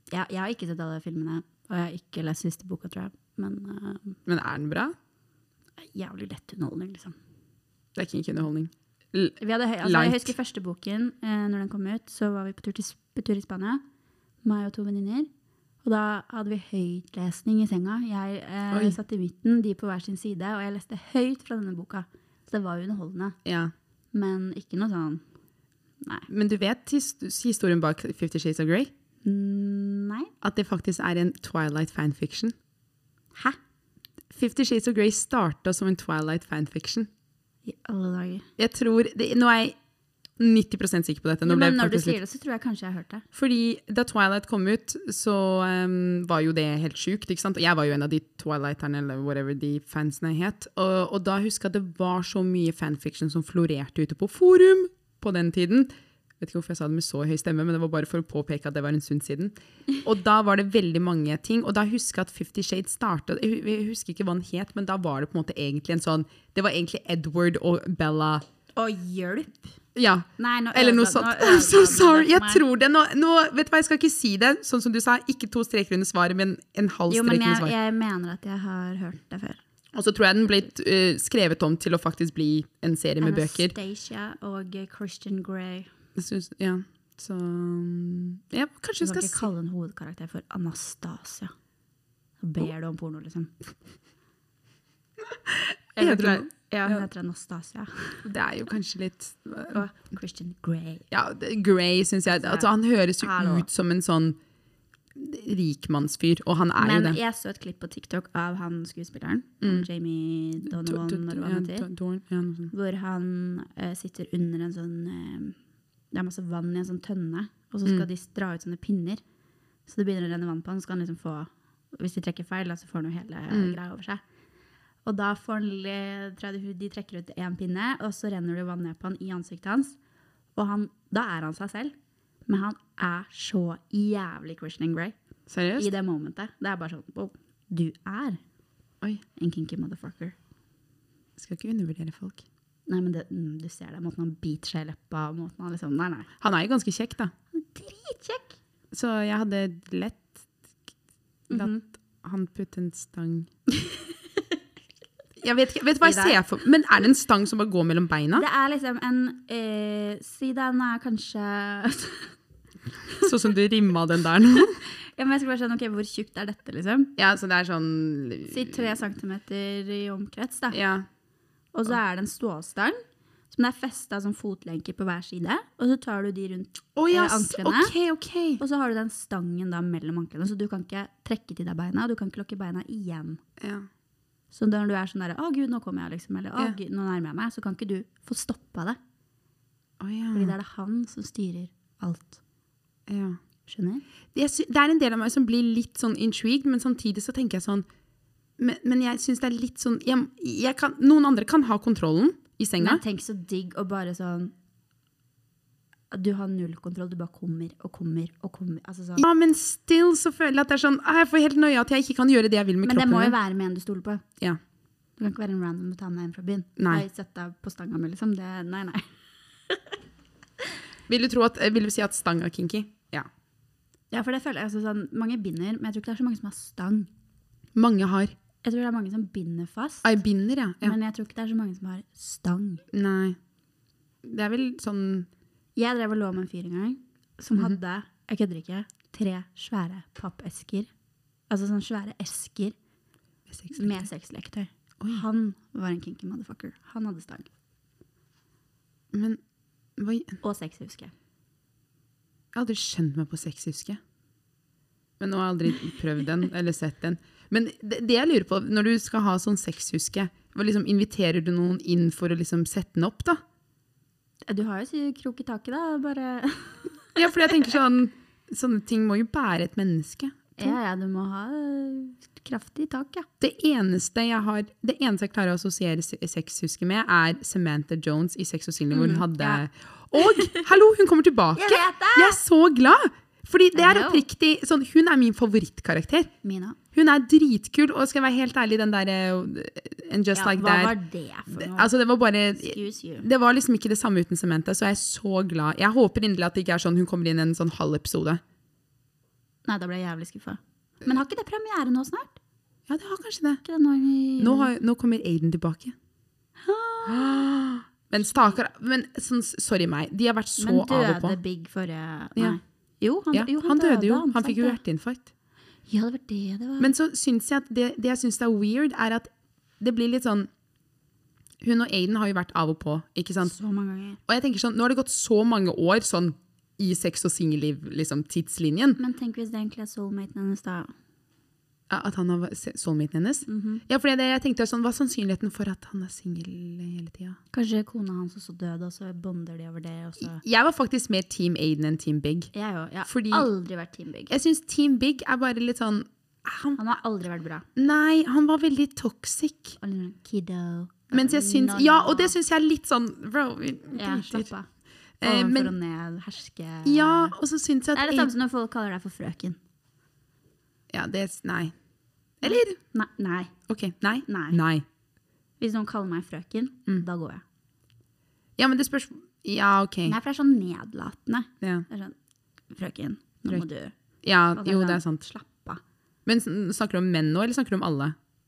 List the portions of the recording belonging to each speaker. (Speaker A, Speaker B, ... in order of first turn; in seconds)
Speaker A: 0.1-4.2, 5.8-7.2, 9.4-13.8, 14.4-15.3, 15.8-23.4, 24.1-25.2, 26.0-26.3, 29.2-30.3, 37.7-38.5, 41.5-43.2, 68.8-69.7, 70.4-72.6, 77.1-79.6, 83.2-85.9, 89.0-91.5, 92.4-93.5, 96.0-98.3, 99.7-101.0, 102.3-103.7, 106.8-111.9, 112.7-115.6, 116.1-119.2, 119.9-124.2, 125.0-130.0, 130.6-131.9, 132.5-135.2, 135.8-138.4, 139.4-140.4, 142.9-146.3, 147.5-148.6, 151.5-151.8, 153.8-154.1, 156.0-156.4, 158.3-162.3, 165.2-167.1, 168.5-170.8, 171.7-173.0, 173.5-177.9, 178.6-183.4, 184.5-189.0, 190.3-192.4, 193.7-194.1, 202.8-204.5, 206.1-209.3, 212.8-214.2, 215.2-219.1, 224.1-227.1, 228.6-230.1, 230.8-232.8, 235.8-240.9, 241.5-242.8, 243.8-247.5, 250.4-251.1, 264.4-267.1, 270.6-273.3, 278.9-279.6, 280.2-280.6, 281.6-282.4, 283.8-284.2, 286.4-286.8, 290.3-291.9, 292.6-293.3, 299.6-302.4, 303.6-304.7, 306.6-307.6, 308.2-308.6, 310.6-314.8, 315.9-316.9, 323.4-324.2, 329.0-330.9, 333.5-333.8, 337.5-340.4, 342.5-344.3, 346.8-347.7, 349.8-352.4, 353.9-354.7, 355.2-357.4, 357.9-359.6, 362.4-363.5, 364.3-364.6, 365.6-367.4, 370.1-372.2, 372.7-373.9, 374.6-375.8
Speaker B: 4.3-5.0, 8.0-10.3, 18.7-19.0, 23.4-23.7, 26.3-28.9, 30.4-32.5, 34.3-37.1, 38.6-39.8, 40.4-42.2, 43.4-55.9, 56.4-68.4, 70.0-77.7, 79.9-83.7, 86.2-89.5, 95.5-97.1, 98.2-99.8, 101.1-104.4, 105.2-107.2, 109.6-109.9, 110.7-112.7, 123.5-123.8, 135.5-135.9, 141.4-142.4, 146.4-147.3, 148.9-150.3, 151.5-153.5, 155.4-158.5, 163.2-164.8, 167.2-169.0, 170.7-171.1, 177.0-178.6, 183.6-183.9, 190.0-190.6, 193.1-193.4, 194.3-197.9, 198.6-203.0, 209.2-213.4, 216.8-217.1, 221.1-223.3, 227.8-228.3, 230.0-231.0, 232.9-233.4, 234.2-235.3, 243.5-244.1, 249.1-249.4, 250.0-250.4, 252.6-254.0, 255.2-263.4, 267.2-270.8, 273.4-286.3, 286.9-290.9, 291.5-298.4, 302.9-303.6, 304.4-306.0, 307.1-311.4, 313.3-315.3, 316.8-320.5, 321.6-323.5, 324.3-329.0, 331.9-337.4, 340.2-342.5, 343.1-343.5, 344.3-346.8, 347.8-349.8, 351.1-354.5, 355.2-355.7, 356.8-358.3, 360.9-361.7, 362.4-362.8, 363.7-364.9, 368.6-370.2, 371.6-371.9, 374.2-375.2, 376.3-378.2